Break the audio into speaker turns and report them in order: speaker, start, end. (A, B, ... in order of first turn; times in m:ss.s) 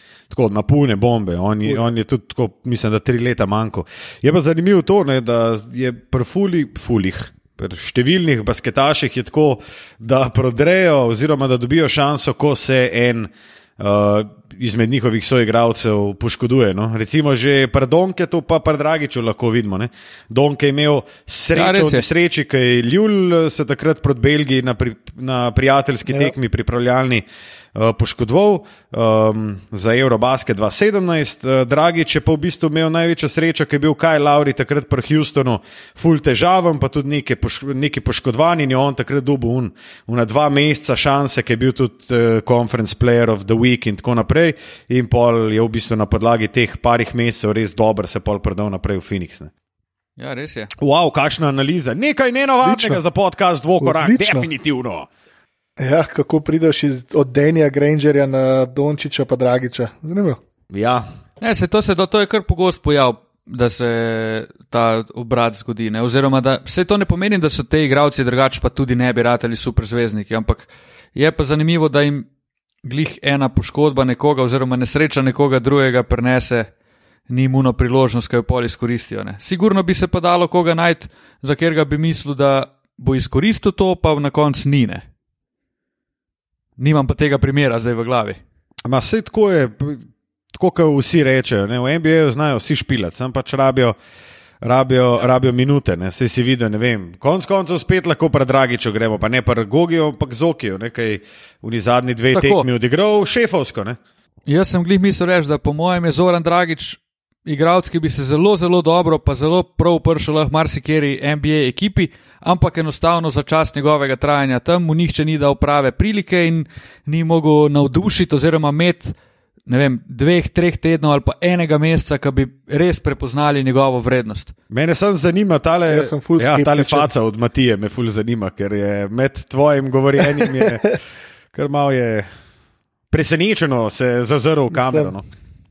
0:00.3-0:49.5 A
0:01.6-0:01.9 B
0:21.6-0:22.1 C
0:26.1-0:26.3 B
0:50.2-0:50.7 C
0:50.8-0:55.1 A
0:52.6-0:53.0 B
0:53.8-0:54.5 B
0:55.8-1:00.4 B
1:00.7-1:01.1 A
1:01.4-1:12.3 C
1:12.8-1:16.7 C
1:17.3-1:25.1 C
1:26.8-1:28.4 C
1:28.9-1:34.0 A
1:34.6-1:44.0 A
1:42.3-1:42.7 C
1:44.5-1:59.2 C
1:59.7-2:04.5 C
2:04.7-2:11.0 A
2:05.9-2:07.1 B
2:10.2-2:10.8 B
2:11.5-2:12.3 A
2:13.1-2:15.2 A
2:14.7-2:15.2 B